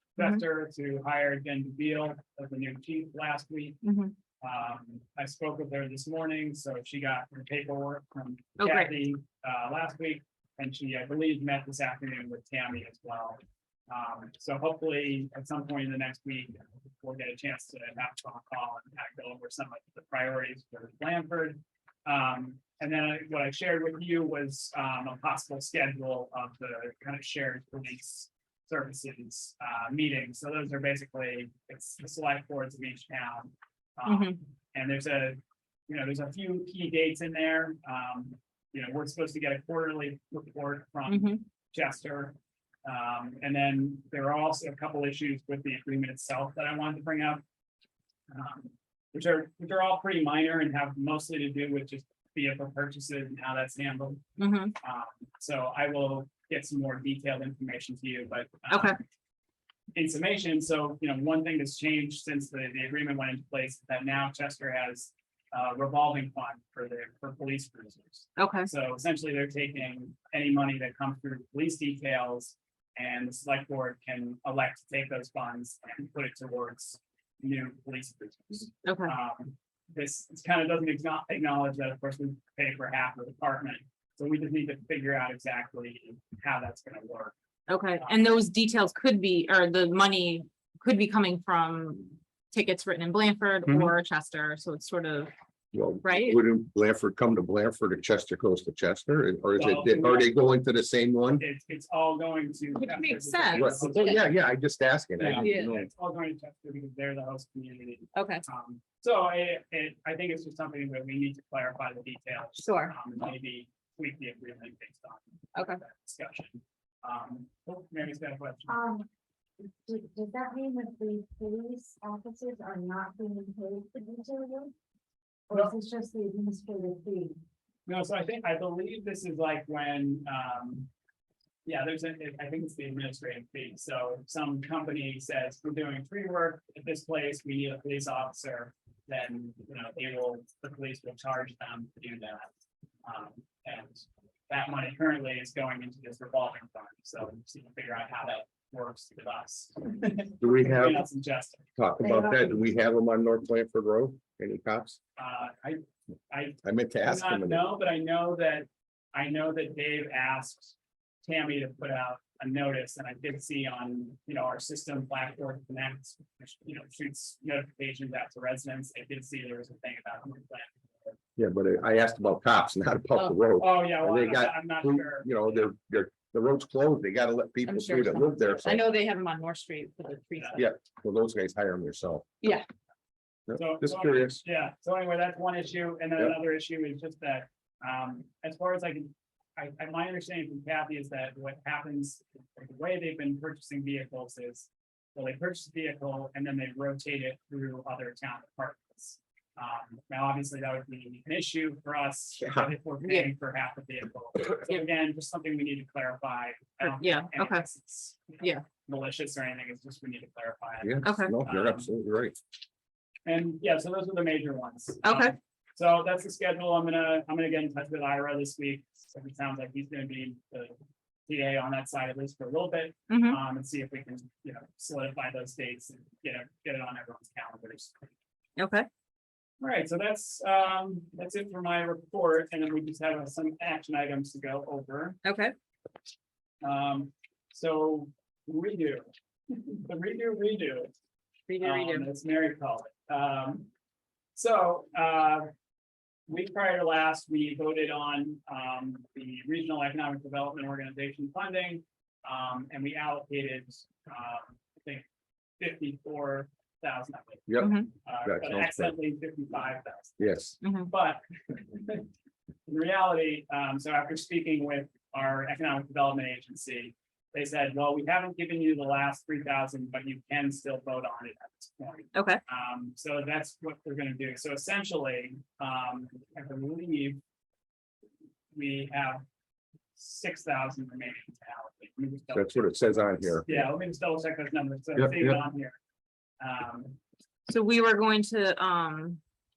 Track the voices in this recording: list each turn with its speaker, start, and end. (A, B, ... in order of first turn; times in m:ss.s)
0:00.2-0:03.8 A
0:03.8-0:04.1 B
0:04.4-0:47.4 A
0:08.6-0:08.9 B
0:34.1-0:34.4 B
0:41.1-0:41.4 B
0:48.3-0:54.2 A
0:54.4-0:54.8 B
0:54.8-0:59.0 A
0:58.7-0:59.0 B
1:00.0-1:27.4 A
1:08.4-1:08.7 B
1:18.8-1:19.1 B
1:27.7-1:35.3 B
1:35.7-1:41.4 C
1:36.0-1:36.4 B
1:39.6-1:40.4 A
1:41.4-1:44.4 A
1:42.7-1:44.2 B
1:43.5-1:45.9 C
1:45.2-1:58.8 A
1:45.3-1:45.8 B
1:48.2-1:48.4 B
1:52.6-1:53.0 B
1:55.6-1:55.8 B
1:58.7-1:59.1 D
1:59.8-2:04.7 D
2:05.5-2:07.4 D
2:07.9-2:10.9 A
2:11.6-2:22.5 A
2:23.0-2:31.7 A
2:30.4-2:31.0 C
2:31.8-2:35.0 C
2:32.0-2:32.5 D
2:35.2-2:51.2 A
2:36.6-2:37.6 C
2:51.4-2:58.8 C
2:53.6-2:55.7 A
2:57.6-3:00.6 B
3:00.4-3:00.7 A
3:00.6-3:02.2 C
3:03.5-3:04.4 C
3:03.5-3:31.9 A
3:22.4-3:22.7 C
3:23.0-3:23.3 B
3:26.8-3:27.7 B
3:30.8-3:32.4 C
3:31.0-3:31.4 B
3:33.3-3:40.8 A
3:35.0-3:35.3 B
3:41.3-3:48.0 A
3:43.1-3:43.4 B
3:48.6-3:48.9 B
3:49.6-3:55.2 A
3:55.2-3:55.5 B
3:56.6-4:00.9 A
4:01.5-4:02.1 B
4:01.6-4:03.7 A
4:04.4-4:05.5 A
4:06.3-4:15.1 A
4:15.6-4:20.2 A
4:17.5-4:19.0 C
4:17.6-4:17.9 B
4:20.2-4:20.6 C
4:20.6-4:20.9 B
4:20.9-4:22.1 A
4:22.7-4:37.2 A
4:32.1-4:32.4 B
4:38.5-4:39.2 A
4:40.0-4:45.8 A
4:42.3-4:43.5 C
4:45.0-4:45.4 C
4:46.4-4:47.0 A
4:47.5-4:49.2 B